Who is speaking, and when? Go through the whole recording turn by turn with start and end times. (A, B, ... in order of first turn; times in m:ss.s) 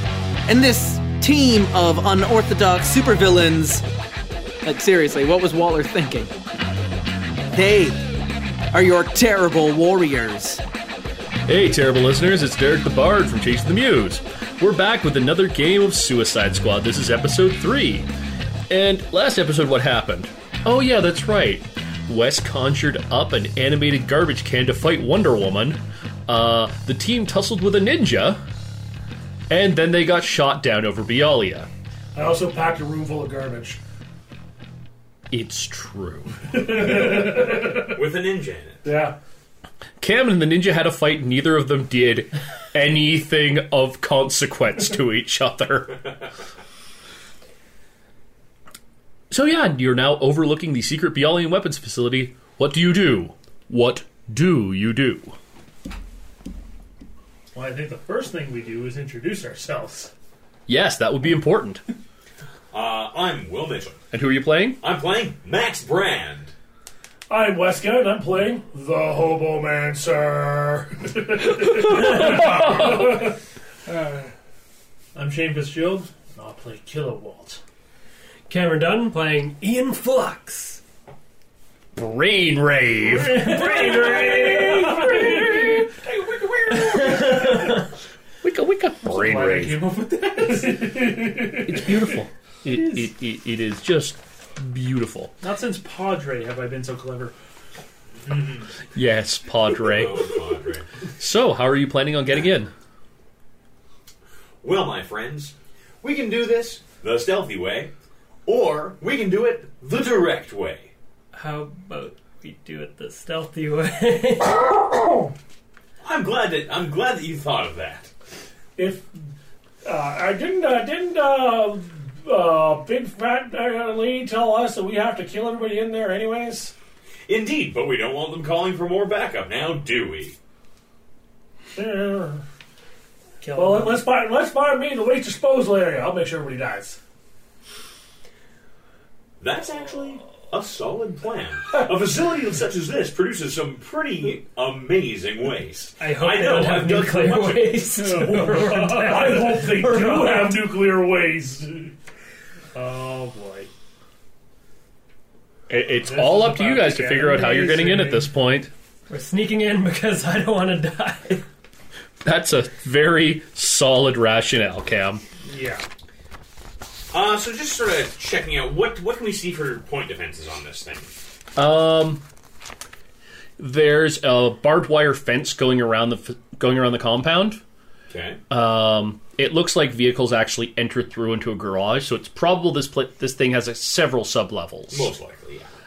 0:00.5-0:03.8 A
0:04.6-0:06.3 A
0:07.5-0:08.0 A
0:08.7-0:10.6 A
0:11.5-0:18.1 B
0:18.7-0:28.4 B
0:29.5-0:31.7 B
0:32.2-0:33.8 C
0:35.3-0:37.1 B
0:36.5-0:38.0 C
0:37.8-0:38.8 D
0:38.8-0:39.2 C
0:40.0-0:46.0 B
0:49.3-0:55.4 B
0:57.5-1:00.1 C
1:00.7-1:01.8 B
1:02.7-1:04.0 D
1:04.1-1:04.8 B
1:04.8-1:06.5 D
1:07.3-1:14.3 C
1:12.0-1:13.0 B
1:15.2-1:17.6 C
1:18.5-1:20.8 E
1:22.0-1:23.8 B
1:23.2-1:25.8 C
1:23.4-1:27.7 D
1:23.5-1:24.4 E
1:24.7-1:25.8 B
1:27.3-1:27.6 C
1:28.4-1:29.8 B
1:29.0-1:32.2 C
1:31.5-1:35.3 B
1:32.7-1:33.0 C
1:35.4-1:37.4 C
1:38.3-1:38.6 D
1:39.0-1:40.3 B
1:39.8-1:40.9 D
1:41.2-1:42.7 B
1:44.6-1:47.9 D
1:48.5-1:50.9 D
1:51.3-1:54.8 E
1:54.8-1:55.2 C
1:56.0-1:58.1 D
1:58.8-1:59.1 C
1:59.8-2:06.7 C
2:07.3-2:10.4 D
2:11.8-2:12.4 C
2:13.4-2:14.1 E
2:13.6-2:17.0 C
2:19.4-2:27.8 D
2:26.0-2:30.7 E
2:28.0-2:31.9 C
2:32.7-2:33.7 C
2:35.7-2:38.7 B
2:36.0-2:38.3 C
2:39.1-2:41.4 E
2:42.2-2:45.2 B
2:45.4-2:45.8 C
2:47.1-2:51.1 D
2:51.6-2:52.2 B
2:53.6-2:57.6 B
2:58.1-2:58.4 D
2:58.5-3:05.1 B
3:04.9-3:05.7 D